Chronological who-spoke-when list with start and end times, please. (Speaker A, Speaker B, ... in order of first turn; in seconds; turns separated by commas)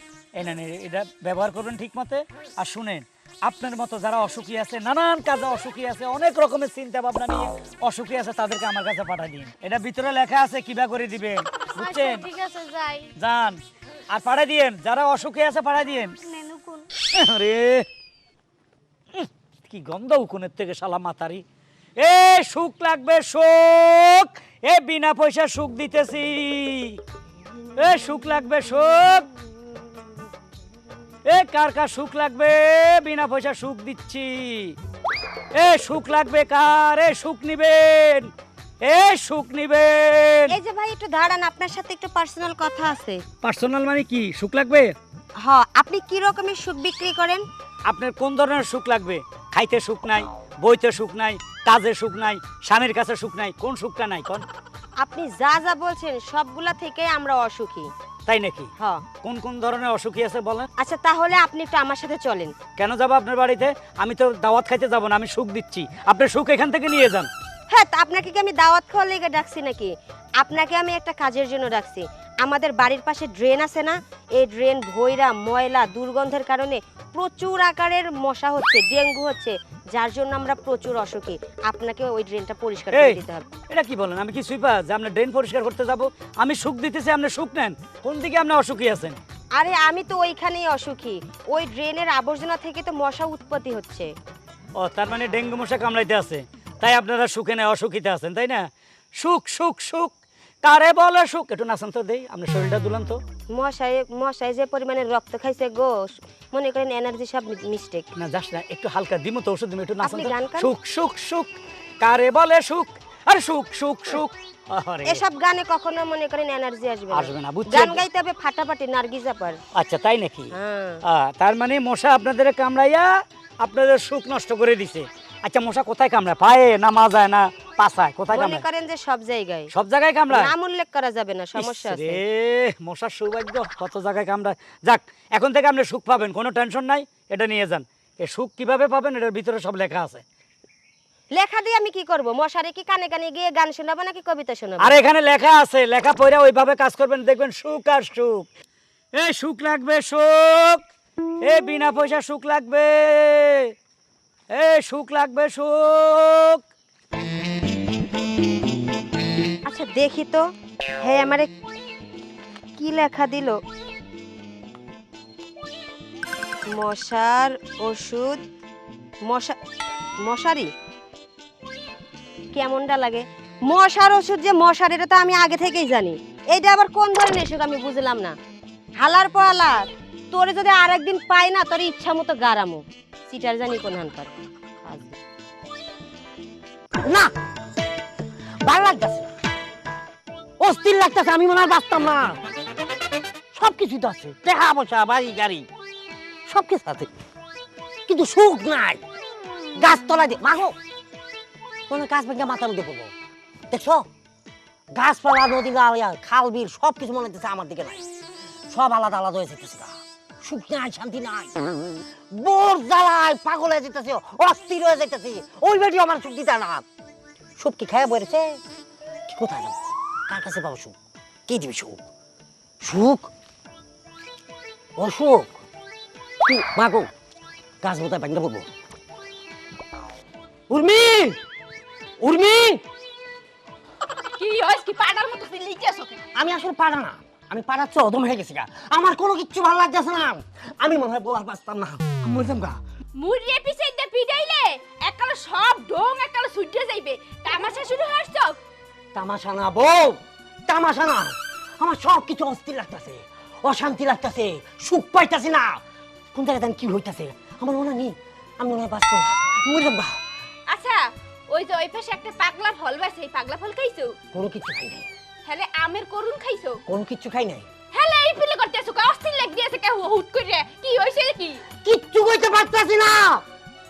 Speaker A: 0.3-12.2, Speaker B: 11.8-13.1, Speaker A: 13.2-13.6, Speaker A: 14.1-16.1, Speaker B: 16.2-16.8, Speaker A: 17.1-17.9, Speaker A: 19.1-21.4, Speaker A: 22.0-27.0, Speaker A: 27.8-29.3, Speaker A: 31.3-34.8, Speaker A: 35.5-38.3, Speaker A: 38.8-40.5, Speaker C: 40.5-43.2, Speaker A: 43.4-44.9, Speaker C: 45.4-47.4, Speaker A: 47.9-54.4, Speaker C: 55.0-57.9, Speaker A: 58.2-58.7, Speaker A: 59.2-60.7, Speaker C: 60.8-62.5, Speaker A: 62.8-67.3, Speaker C: 67.7-83.5, Speaker A: 82.9-89.2, Speaker C: 89.5-94.1, Speaker A: 94.8-98.6, Speaker A: 99.2-103.2, Speaker C: 103.5-108.0, Speaker A: 108.2-115.2, Speaker C: 110.0-110.7, Speaker C: 115.0-119.6, Speaker A: 117.1-118.0, Speaker A: 119.7-120.5, Speaker C: 120.5-121.0, Speaker A: 121.0-123.1, Speaker A: 123.6-128.6, Speaker C: 128.3-129.7, Speaker A: 129.7-130.5, Speaker C: 130.3-132.2, Speaker A: 131.6-140.2, Speaker C: 141.3-144.9, Speaker A: 144.8-148.5, Speaker A: 149.2-150.8, Speaker A: 151.4-153.7, Speaker A: 154.5-156.6, Speaker C: 159.6-161.5, Speaker C: 162.8-163.6, Speaker C: 166.7-168.4, Speaker C: 169.3-169.6, Speaker C: 170.2-170.7, Speaker C: 172.5-178.3, Speaker C: 179.0-184.3, Speaker C: 184.8-185.1, Speaker D: 187.0-187.3, Speaker D: 188.6-189.3, Speaker D: 190.6-192.4, Speaker D: 193.5-195.7, Speaker D: 196.5-197.1, Speaker D: 198.1-199.0, Speaker D: 199.8-200.8, Speaker D: 201.9-203.1, Speaker D: 203.7-204.1, Speaker D: 204.9-208.0, Speaker D: 208.7-211.6, Speaker D: 212.3-216.8, Speaker D: 217.6-218.6, Speaker D: 219.3-220.9, Speaker D: 221.5-222.0, Speaker D: 222.8-223.3, Speaker D: 225.0-225.6, Speaker D: 226.4-227.1, Speaker D: 227.8-228.7, Speaker D: 230.7-231.4, Speaker D: 232.2-232.8, Speaker E: 234.4-236.2, Speaker D: 236.3-242.8, Speaker E: 243.2-248.6, Speaker D: 249.1-255.8, Speaker D: 256.3-260.2, Speaker E: 260.7-261.0, Speaker E: 261.5-264.1, Speaker D: 264.3-265.1, Speaker E: 265.4-266.8, Speaker D: 266.9-267.7, Speaker E: 267.9-271.6, Speaker D: 271.8-273.4